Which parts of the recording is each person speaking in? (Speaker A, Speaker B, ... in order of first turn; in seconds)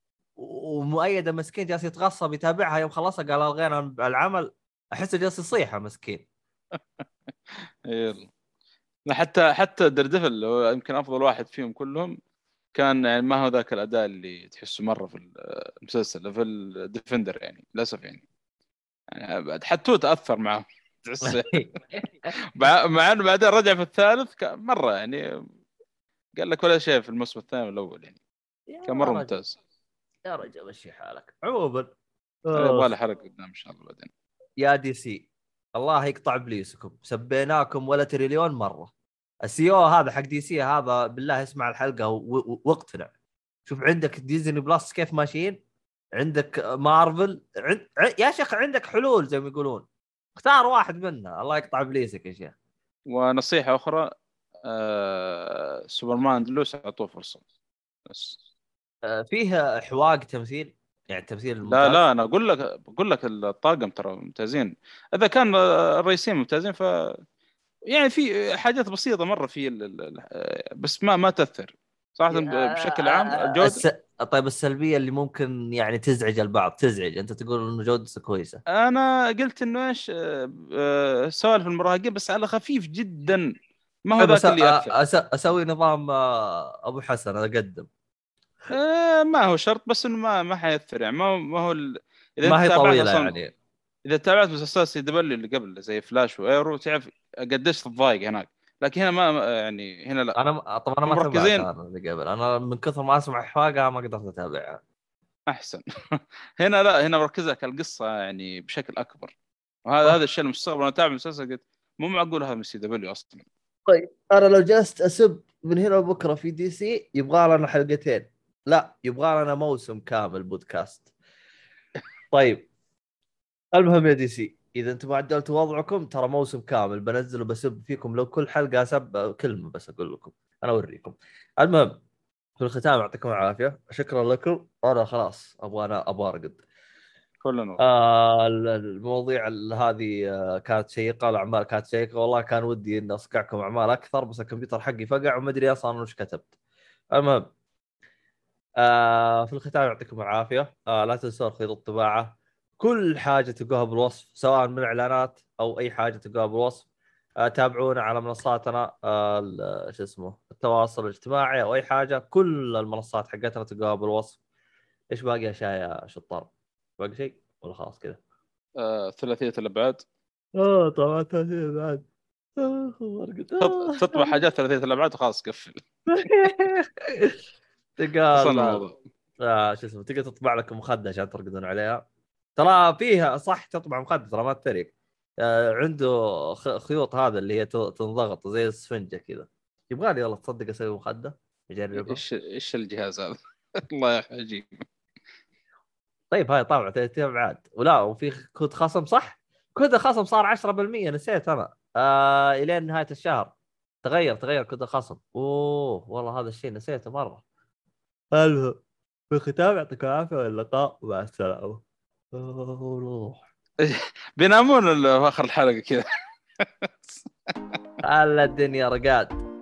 Speaker A: 0.4-6.2, 21.2-22.3, 28.7-29.3, 30.3-31.9, 32.5-32.9, 34.6-38.9, 39.4-43.1, 43.7-45.6, 46.2-49.9, 50.4-52.5, 59.1-62.0, 72.3-78.6, 84.2-87.9, 92.4-93.5, 100.4-104.8, 113.9-121.0, 122.3-122.7, 123.7-131.9, 132.6-136.6, 137.8-146.4, 147.1-147.5, 148.8-156.9, 157.4-164.4, 165.1-168.2, 170.6-172.0, 172.6-174.3, 176.1-177.4, 178.0-178.8, 179.4-182.1, 182.6-192.2, 196.3-203.5, 204.0-207.4, 208.3-208.8, 209.3-211.8, 212.3-213.4, 218.0-219.4
Speaker B: 7.9-8.3, 9.1-12.2, 12.8-18.2, 19.1-21.7, 22.5-25.2, 26.4-28.2, 28.9-29.6, 32.5-34.1, 53.1-54.1, 54.7-57.4, 58.1-58.4, 61.6-67.2, 67.9-73.8, 78.7-83.5, 84.1-84.9, 88.7-93.3, 94.1-100.4, 101.1-101.7, 105.5-109.3, 109.9-113.5, 137.4-137.8, 168.8-170.0, 173.6-175.8, 178.3-178.9, 192.0-194.8, 213.8-216.1, 216.6-217.1